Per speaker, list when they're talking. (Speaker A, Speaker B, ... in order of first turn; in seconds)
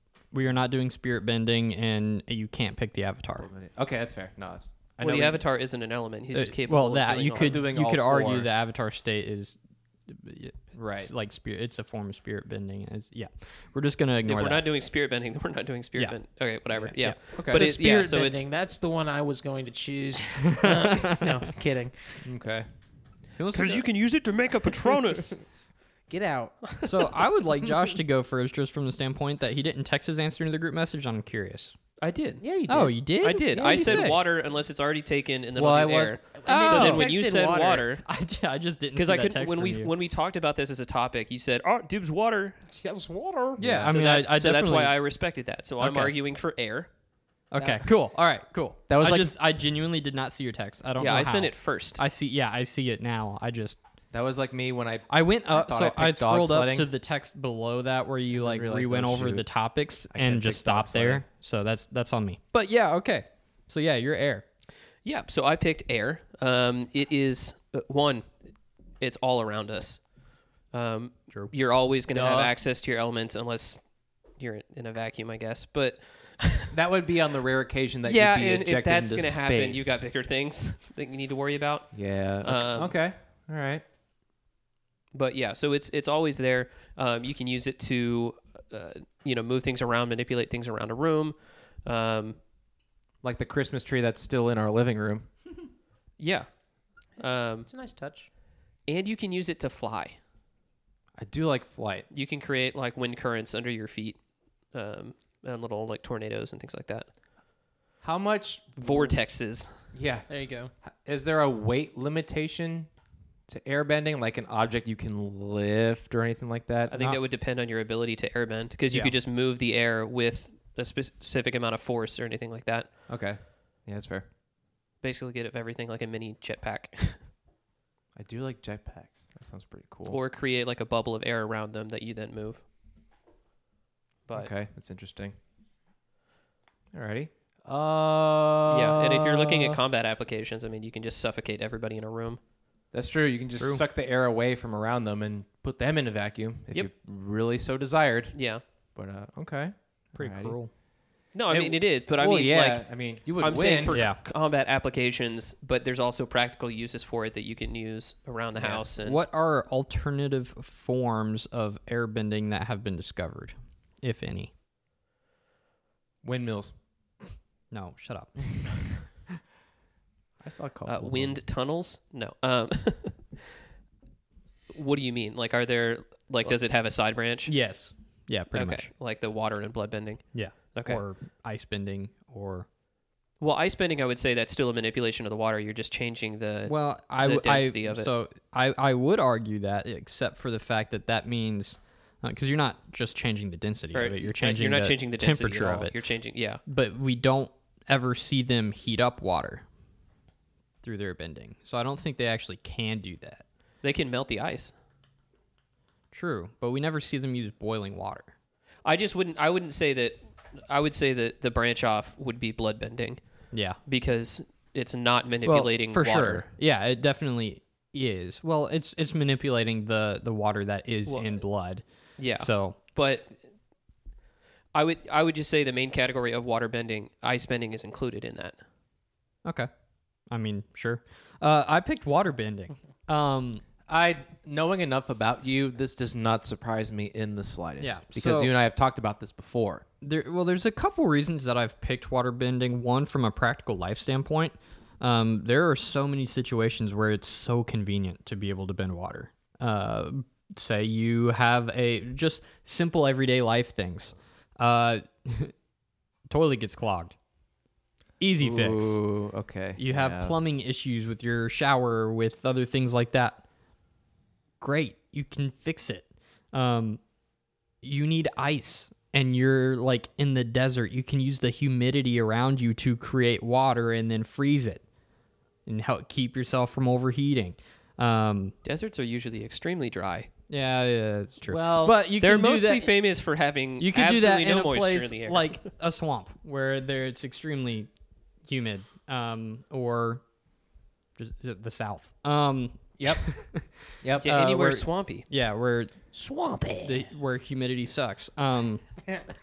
Speaker A: 0.3-3.5, 6.3-14.6, 16.8-17.2, 20.4-21.4, 23.4-23.9, 26.8-31.8, 32.7-34.2, 36.6-37.1, 38.0-39.9, 43.6-45.0, 45.8-46.1, 47.5-53.8, 55.1-64.5, 150.2-150.7, 153.9-154.2, 158.6-164.5, 167.7-169.2, 177.5-178.9, 180.3-182.7, 186.7-195.9, 196.7-199.6, 200.8-203.4, 206.1-208.3, 213.5-213.8, 215.4-221.8, 222.4-222.8, 229.4-229.7, 230.3-233.7, 237.8-238.5, 240.0-255.5, 256.3-257.2, 258.2-259.0, 259.8-263.4, 264.6-267.0, 267.8-274.8, 275.7-278.5, 280.5-282.9, 283.8-287.9, 288.5-290.2, 291.2-295.9, 296.8-298.9
Speaker B: 3.4-5.4, 7.3-8.5, 10.7-11.1, 17.4-17.6, 22.2-22.6, 35.5-36.8, 43.6-43.9, 48.9-49.3, 54.1-56.9, 58.3-59.5, 60.1-61.2, 72.1-72.5, 76.7-80.1, 81.9-83.8, 93.2-95.3, 101.2-102.1, 108.0-109.2, 109.9-110.3, 110.8-112.9, 113.5-116.9, 123.1-124.3, 128.2-130.2, 134.3-135.3, 136.9-139.8, 142.9-148.4, 148.9-150.6, 151.5-154.0, 166.2-166.8, 170.4-171.4, 233.9-239.8, 258.4-260.4, 281.5-282.0, 294.0-294.3
Speaker C: 5.0-7.7, 14.3-18.5, 23.5-25.4, 32.0-32.4, 33.2-38.0, 39.0-42.6, 43.9-46.9, 51.0-52.0, 65.0-68.3, 69.0-70.1, 70.7-76.7, 78.0-83.0, 85.1-92.4, 96.2-96.5, 97.2-97.7, 98.9-100.2, 102.1-104.2, 104.7-107.1, 108.8-109.7, 116.9-122.9, 125.0-127.2, 130.1-132.6, 138.7-142.4, 148.3-148.6, 151.3-159.2, 170.9-173.5, 174.7-177.6, 178.5-181.0, 183.4-188.1, 193.9-196.6, 203.8-204.7, 208.8-216.5, 221.1-221.4, 222.2-223.4, 224.7-228.6, 278.6-280.3, 282.1-285.6, 294.2-295.2
Speaker D: 17.4-22.2, 26.1-26.7, 32.4-34.1, 36.4-37.9, 42.7-43.6, 97.7-98.3, 110.3-110.7, 296.1-297.1